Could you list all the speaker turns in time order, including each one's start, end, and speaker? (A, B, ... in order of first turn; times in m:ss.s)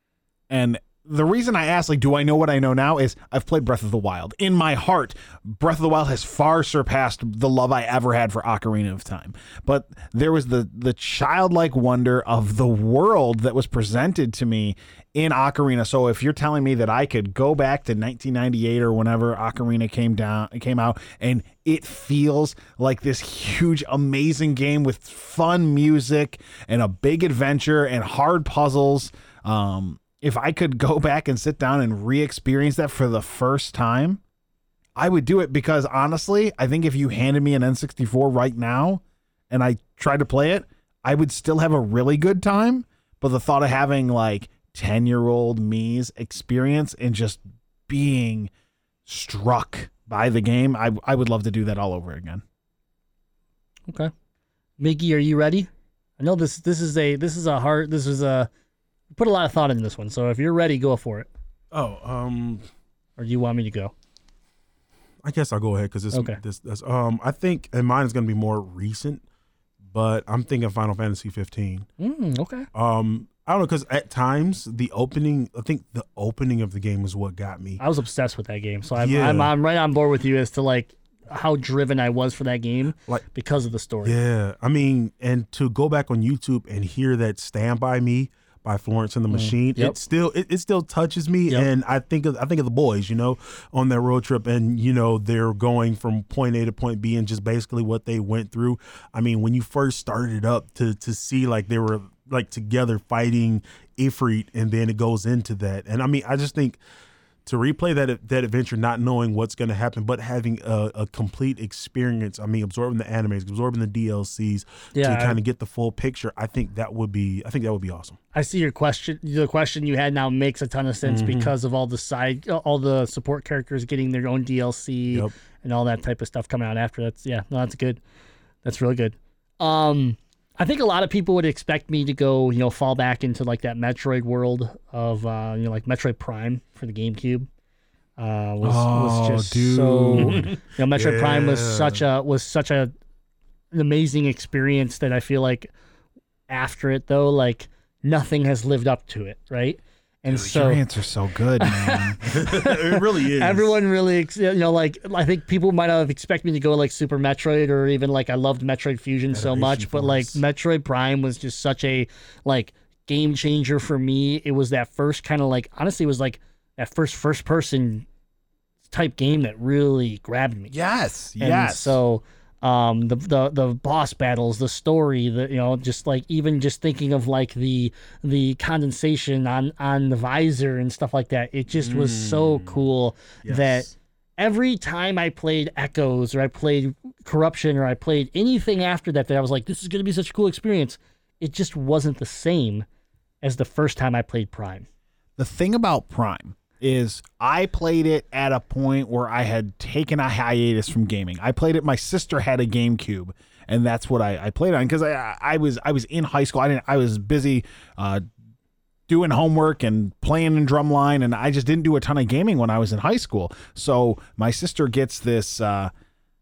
0:00.5-0:34.2 A
0:35.0-0:48.5 A
0:49.0-0:52.4 A
0:54.8-0:58.5 B
0:59.1-1:01.3 B
1:01.7-1:02.6 C
1:03.2-1:03.9 B
1:05.2-1:09.2 C
1:06.1-1:06.4 B
1:09.9-1:11.9 C
1:12.0-1:12.7 B
1:12.7-1:17.8 C
1:17.8-1:24.2 B
1:19.0-1:19.5 C
1:24.0-1:46.8 C
1:29.3-1:30.0 B
1:47.4-1:58.2 C
1:54.9-1:55.4 B
1:58.3-2:08.0 B
2:01.0-2:01.5 C
2:08.6-2:17.5 B
2:18.2-2:22.9 B
2:18.6-2:20.5 A
2:20.2-2:22.0 C
2:23.7-2:25.7 B
2:26.5-2:30.8 B
2:30.5-2:32.2 A
2:31.6-2:48.0 B
2:32.2-2:33.7 C
2:39.3-2:40.4 C
2:48.9-2:50.7 B
2:50.7-2:52.0 A
2:51.4-3:12.8 B
3:01.7-3:02.8 C
3:03.4-3:03.9 C
3:13.4-3:14.8 B
3:15.4-3:28.2 A
3:29.1-3:35.9 A